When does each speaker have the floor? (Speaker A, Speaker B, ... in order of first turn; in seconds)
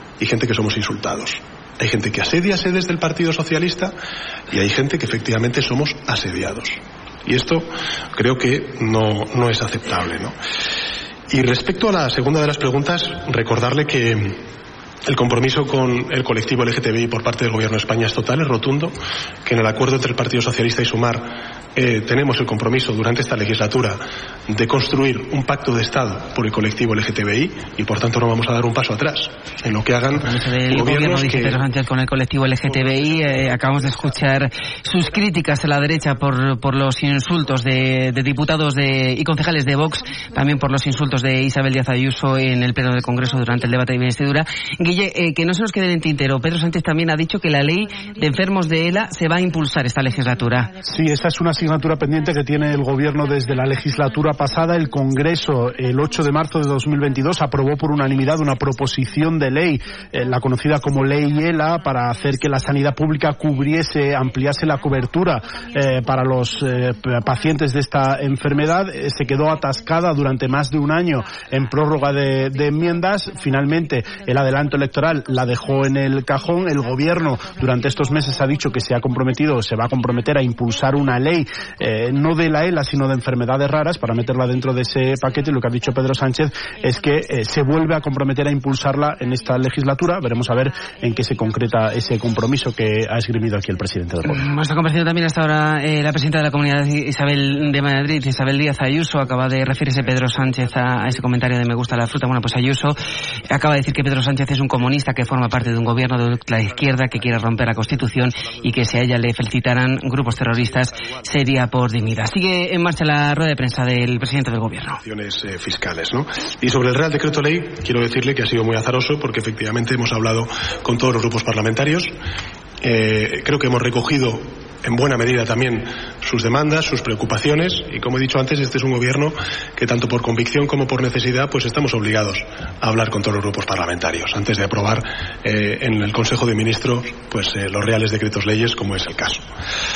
Speaker A: 0.2-3.9, 4.5-10.3, 11.3-14.4, 15.0-18.9, 19.4-31.6, 32.8-34.1, 115.0-122.1, 122.8-139.4
Speaker B: 30.2-50.8, 94.2-115.0
Speaker C: 50.8-94.4